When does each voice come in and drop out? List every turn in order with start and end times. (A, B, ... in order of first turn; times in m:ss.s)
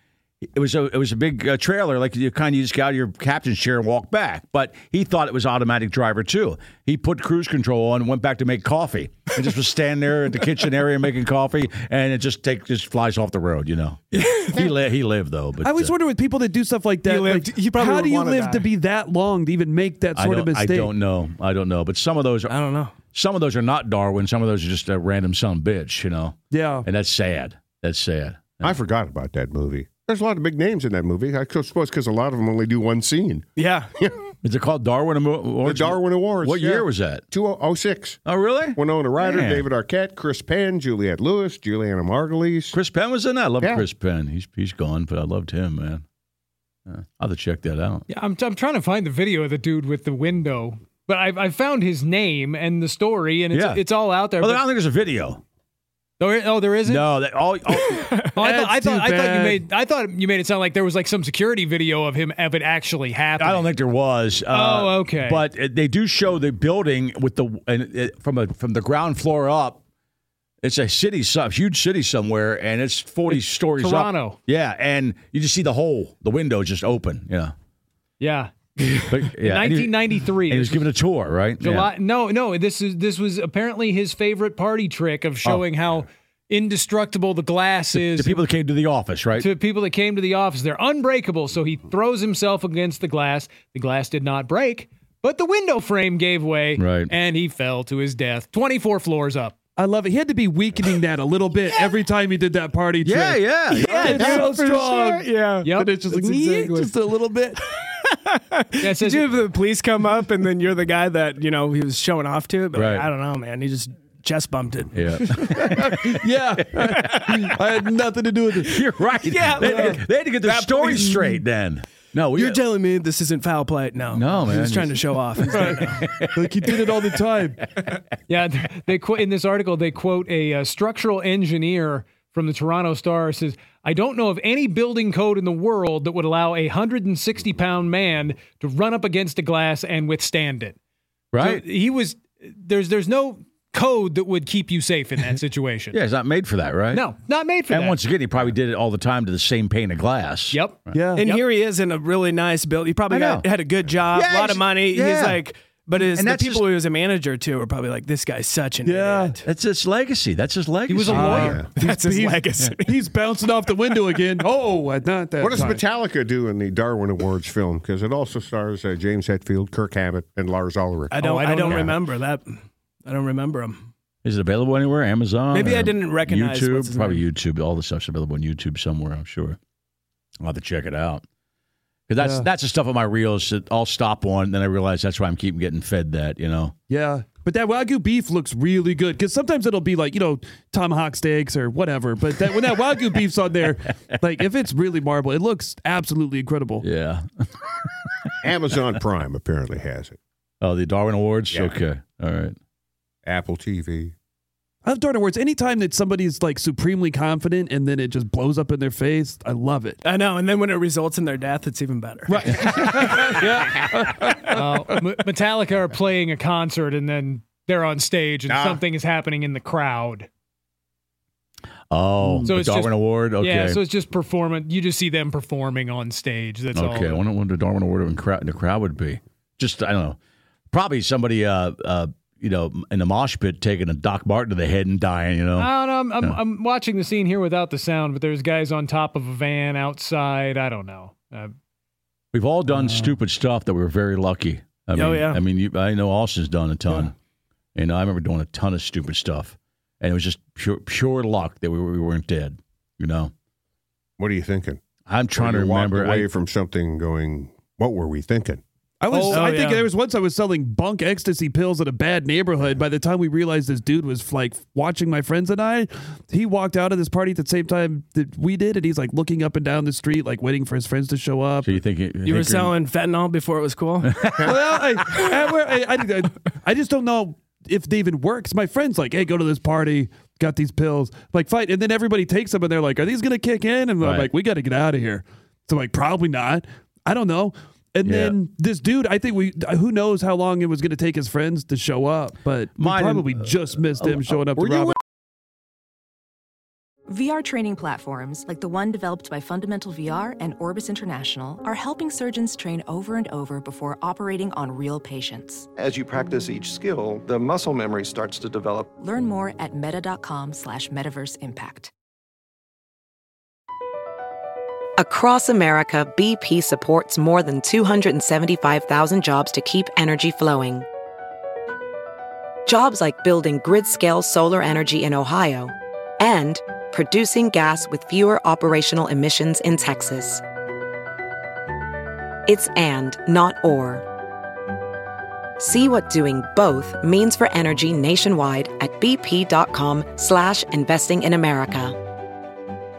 0:00.4-0:15.9 A
0:14.1-0:14.7 B
0:15.6-0:20.9 C
0:17.0-0:18.7 B
0:20.2-0:22.5 A
0:22.5-0:22.9 B
0:23.1-0:28.7 A
0:26.5-0:26.9 C
0:28.6-0:33.5 D
0:33.6-0:33.9 B
0:34.4-0:37.2 A
0:35.6-0:38.2 D
0:38.3-0:39.7 A
0:38.8-0:42.8 D
0:42.7-0:46.0 A
0:46.9-0:48.0 A
0:48.1-0:54.6 E
0:53.5-0:53.8 A
0:54.4-0:55.4 A
0:56.2-0:57.1 E
0:56.9-0:58.2 A
0:58.4-0:59.6 C
0:58.4-1:03.7 E
1:03.4-1:09.8 A
1:04.5-1:05.4 E
1:10.6-1:17.5 A
1:13.3-1:14.4 E
1:18.2-1:20.8 E
1:19.1-1:21.9 A
1:21.6-1:28.4 E
1:27.9-1:29.5 A
1:29.4-1:39.6 E
1:36.8-1:37.1 A
1:39.8-1:47.6 C
1:43.0-1:44.1 A
1:43.7-1:45.7 B
1:45.6-1:46.9 E
1:48.3-1:55.0 B
1:48.8-1:49.3 E
1:52.7-1:53.1 A
1:54.9-1:57.2 A
1:55.3-1:58.8 C
1:56.9-1:57.5 B
1:58.6-2:02.6 A
1:59.2-2:01.2 B
1:59.6-2:00.0 C
2:02.4-2:06.1 B
2:04.1-2:06.7 A
2:05.5-2:07.6 C
2:08.3-2:20.8 E
2:21.3-2:21.6 A
2:21.4-2:26.0 E
2:25.9-2:27.1 A
2:26.9-2:28.0 E
2:27.7-2:31.0 A
2:30.5-2:31.4 E
2:30.9-2:31.3 C
2:31.2-2:39.4 B
2:33.1-2:33.5 A
2:34.1-2:35.4 A
2:36.1-2:36.6 A
2:38.8-2:39.4 C
2:39.4-2:41.6 A
2:40.9-2:41.6 E
2:41.1-2:45.8 C
2:41.8-2:43.0 B
2:45.4-2:51.2 D
2:51.1-2:53.9 B
2:51.2-2:52.0 E
2:54.2-2:59.6 A
2:55.5-2:57.2 B
3:00.4-3:01.2 A
3:02.1-3:06.7 A
3:02.2-3:02.5 C
3:06.9-3:16.8 C
3:16.8-3:17.5 A
3:18.4-3:20.2 D
3:20.6-3:22.6 A
3:23.2-3:24.2 D
3:24.8-3:30.0 C
3:30.0-3:33.8 B
3:32.3-3:35.1 C
3:34.5-3:40.3 E
3:38.5-3:38.8 D
3:41.9-3:43.8 A
3:42.2-3:42.5 C
3:42.5-3:47.2 E
3:46.7-3:50.2 A
3:50.7-3:56.4 A
3:55.6-4:01.5 E
4:02.3-4:07.1 A
4:02.7-4:03.1 C
4:05.0-4:05.4 B
4:07.8-4:13.3 A
4:14.2-4:14.8 D
4:15.1-4:16.3 A
4:15.4-4:18.6 D
4:19.0-4:31.8 C
4:19.1-4:19.4 E
4:19.1-4:19.9 B
4:31.6-4:32.7 A
4:32.2-4:34.3 B
4:34.0-4:34.5 A
4:34.4-4:55.0 C
4:44.0-4:44.3 A
4:48.0-4:48.4 A
4:52.8-4:54.4 A
4:54.6-4:55.0 D
4:57.1-5:05.7 F
5:05.8-5:08.9 G
5:09.0-5:11.9 F
5:15.0-5:20.9 H
5:22.7-5:30.4 H
5:32.5-5:34.1 H
5:35.6-5:42.0 H